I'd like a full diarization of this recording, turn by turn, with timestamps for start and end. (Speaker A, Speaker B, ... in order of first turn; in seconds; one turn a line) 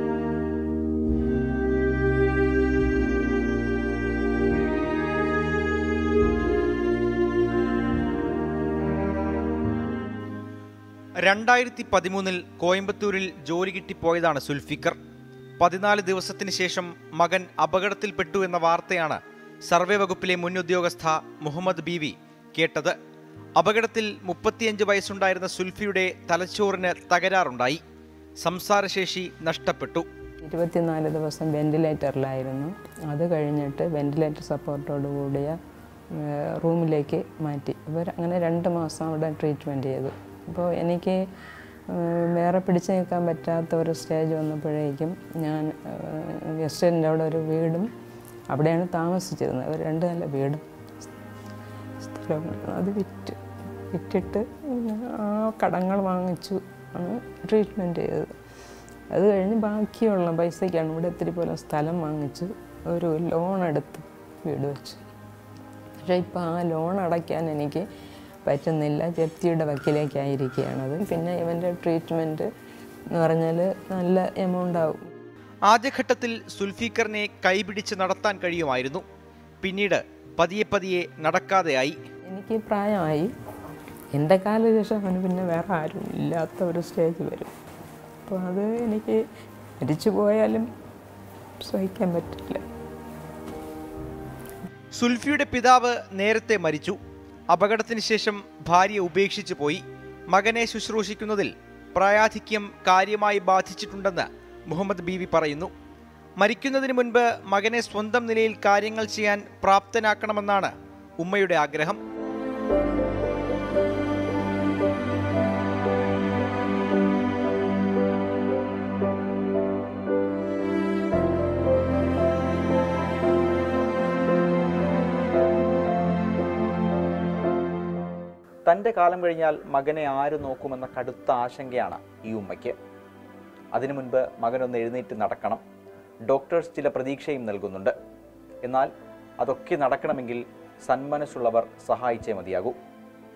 Speaker A: 11.2-15.0
Speaker A: 15.6-23.0
Speaker A: 23.6-27.8
Speaker A: 28.4-30.1
Speaker B: 30.4-35.6
Speaker B: 36.1-41.2
Speaker B: 41.9-47.9
Speaker B: 48.5-50.6
Speaker B: 52.0-58.3
Speaker B: 59.1-65.0
Speaker B: 66.0-67.8
Speaker B: 68.4-72.5
Speaker B: 73.2-75.0
Speaker A: 75.7-79.0
Speaker A: 79.6-82.0
Speaker B: 82.3-83.3
Speaker B: 84.1-87.5
Speaker B: 88.2-89.2
Speaker B: 89.8-90.7
Speaker B: 91.6-92.7
Speaker A: 94.9-97.0
Speaker A: 97.5-105.7
Speaker A: 106.4-112.0
Speaker C: 128.7-132.8
Speaker C: 133.7-135.6
Speaker C: 136.3-137.9
Speaker C: 138.6-142.8